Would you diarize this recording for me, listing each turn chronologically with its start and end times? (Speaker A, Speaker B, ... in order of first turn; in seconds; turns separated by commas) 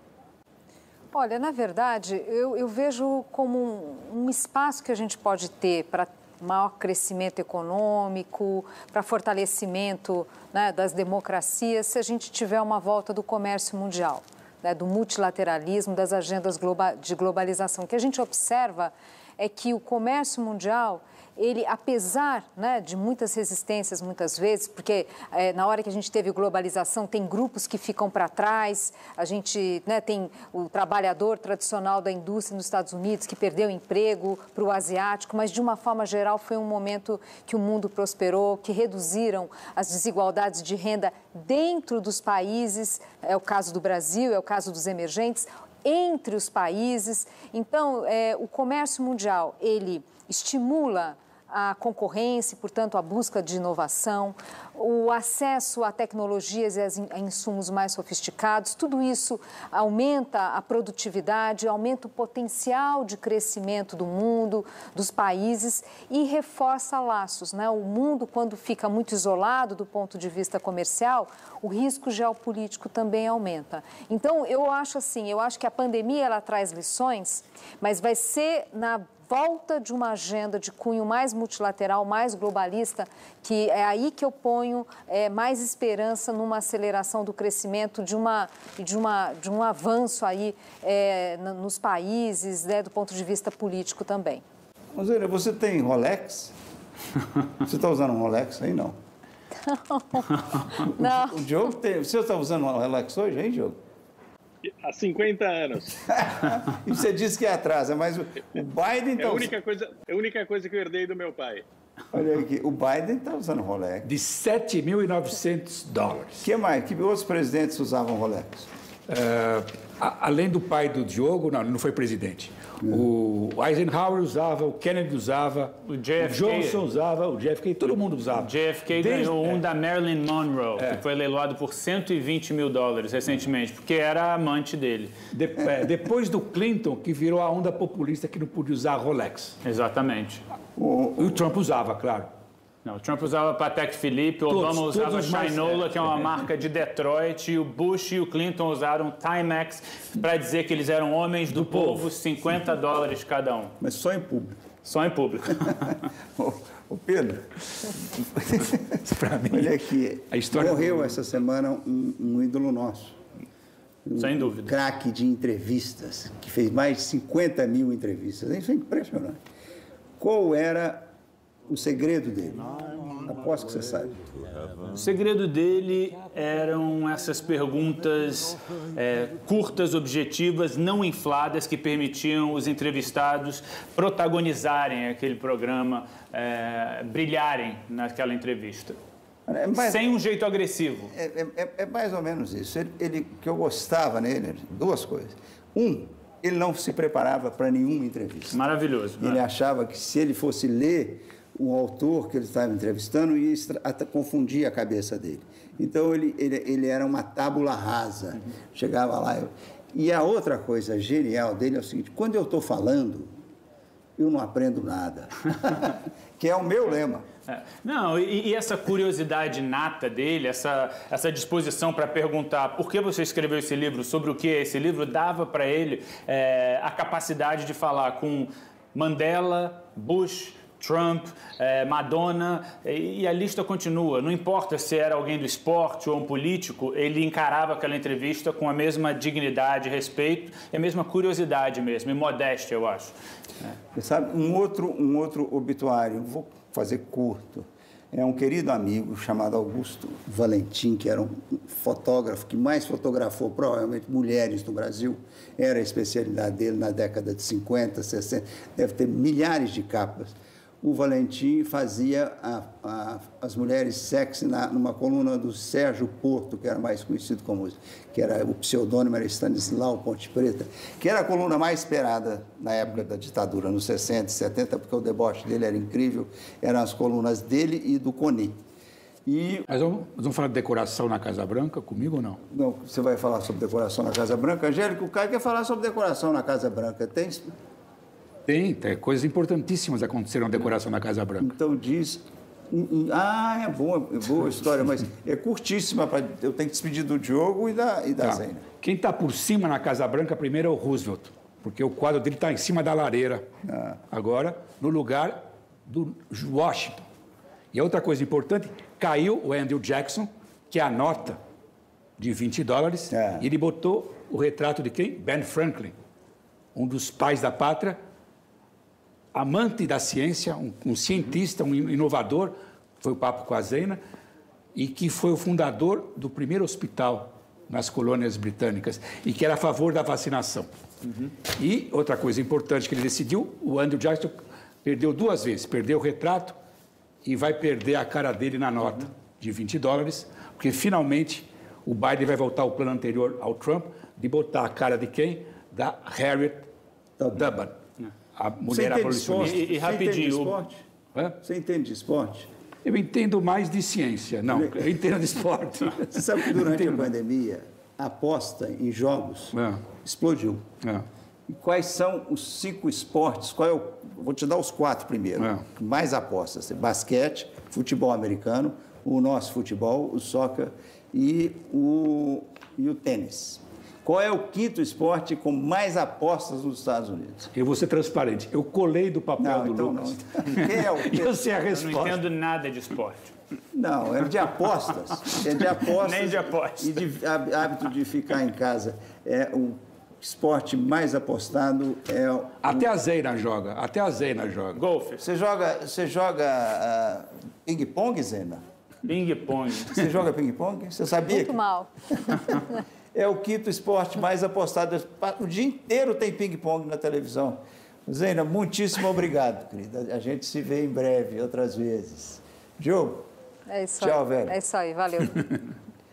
Speaker A: 1.1-94.4, Speaker B: 94.9-96.5, Speaker B: 97.6-99.0, Speaker A: 99.6-101.4, Speaker B: 100.8-103.8, Speaker C: 104.6-106.2, Speaker B: 106.1-109.5, Speaker C: 109.2-111.6, Speaker B: 112.1-114.1, Speaker D: 114.0-116.4, Speaker B: 116.4-118.7, Speaker D: 119.1-129.6, Speaker E: 125.8-126.8, Speaker E: 128.3-135.2, Speaker D: 135.3-139.6, Speaker E: 139.6-140.4, Speaker B: 140.8-141.3, Speaker D: 141.2-142.3, Speaker E: 142.8-153.7, Speaker D: 144.5-146.4, Speaker D: 151.5-152.1, Speaker B: 153.8-154.6, Speaker E: 154.8-156.0, Speaker B: 156.3-163.2, Speaker D: 159.0-159.8, Speaker D: 160.3-161.2, Speaker B: 164.0-169.4, Speaker E: 164.2-164.8, Speaker B: 170.2-171.1, Speaker B: 171.7-174.4, Speaker E: 174.8-189.0, Speaker B: 189.5-190.1, Speaker E: 189.7-191.1, Speaker B: 191.1-198.6, Speaker E: 198.5-199.4, Speaker B: 199.2-213.3, Speaker B: 214.2-217.2, Speaker E: 217.5-243.1, Speaker B: 243.9-278.6, Speaker B: 279.2-279.7, Speaker D: 279.7-282.4, Speaker B: 282.5-287.5, Speaker D: 288.5-291.5, Speaker B: 291.4-298.6, Speaker D: 298.2-303.5, Speaker B: 303.6-304.0, Speaker D: 304.1-307.1, Speaker D: 307.7-311.4, Speaker D: 312.2-315.9, Speaker B: 313.1-313.5, Speaker D: 316.7-318.0, Speaker D: 319.3-324.0, Speaker D: 324.7-330.7, Speaker D: 331.4-336.6, Speaker D: 337.2-346.7, Speaker B: 347.2-347.6, Speaker D: 347.3-347.8, Speaker D: 348.3-349.6, Speaker B: 348.7-350.8, Speaker E: 349.3-350.6, Speaker B: 351.4-352.5, Speaker D: 352.8-357.1, Speaker B: 354.5-354.9, Speaker B: 356.1-360.7, Speaker D: 359.5-359.9, Speaker B: 361.5-377.5, Speaker D: 365.4-365.6, Speaker D: 377.5-382.2, Speaker B: 379.4-381.4, Speaker E: 381.7-383.3, Speaker B: 383.7-392.9, Speaker E: 385.9-386.9, Speaker D: 392.6-394.8, Speaker E: 394.7-395.2, Speaker B: 395.2-398.6, Speaker E: 399.1-400.0, Speaker B: 399.9-401.6, Speaker A: 401.3-401.9, Speaker B: 402.3-402.5, Speaker B: 403.1-413.2, Speaker A: 413.7-415.4, Speaker B: 414.0-414.6